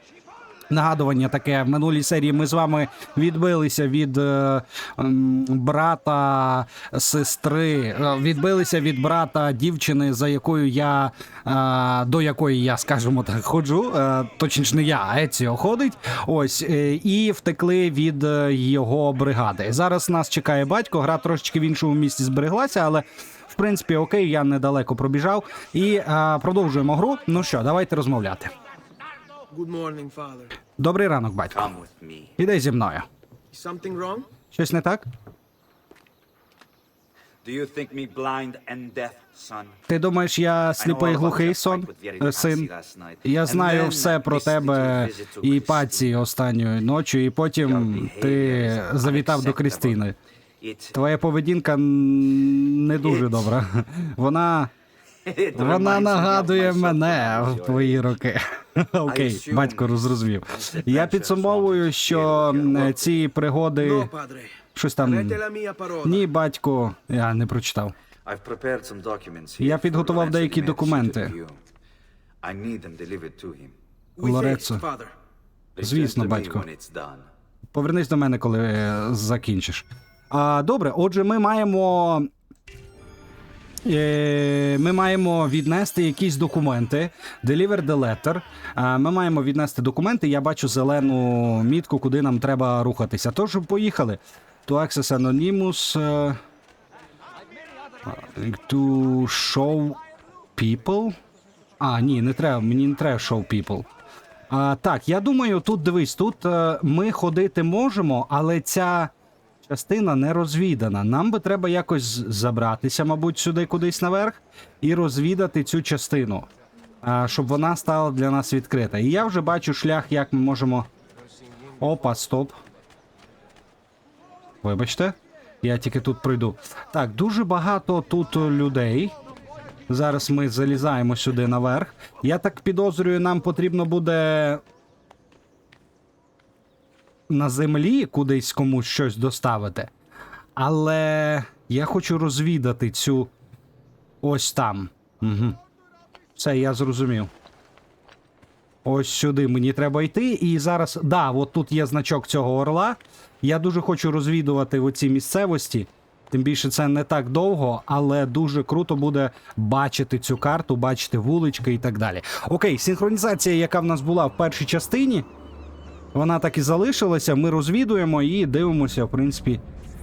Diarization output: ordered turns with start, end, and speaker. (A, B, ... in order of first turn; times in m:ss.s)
0:00.7-0:28.5 A
0:29.5-0:30.5 B
0:30.8-0:31.7 A
0:31.5-0:32.4 C
0:32.4-0:33.1 A
0:33.5-0:34.3 B
0:34.5-0:35.0 A
0:37.4-0:39.8 C
0:39.9-0:42.7 A
0:40.8-0:46.1 C
0:43.2-0:50.1 A
0:47.6-0:50.0 C
0:50.6-0:51.0 C
0:50.9-0:54.7 A
0:55.2-0:58.1 C
0:55.5-1:04.1 A
0:59.0-1:03.2 C
1:03.8-1:06.2 B
1:04.7-1:05.4 A
1:06.0-1:07.9 A
1:08.2-1:11.6 C
1:09.6-1:11.3 A
1:12.4-1:13.8 C
1:14.2-1:15.1 B
1:14.2-1:14.8 A
1:15.8-1:17.3 C
1:15.8-1:16.6 A
1:17.7-1:22.3 A
1:23.8-1:36.4 A
1:38.0-1:40.0 A
1:40.5-1:41.2 A
1:41.8-1:43.9 A
1:44.5-1:49.1 A
1:49.6-1:56.5 A
1:57.0-2:00.9 A
2:01.8-2:02.6 A
2:04.6-2:09.2 A
2:09.9-2:14.6 A
2:17.3-2:19.9 A
2:20.6-2:23.3 A
2:24.2-2:25.6 A
2:26.4-2:27.3 A
2:28.8-2:45.3 A
2:46.1-2:49.6 A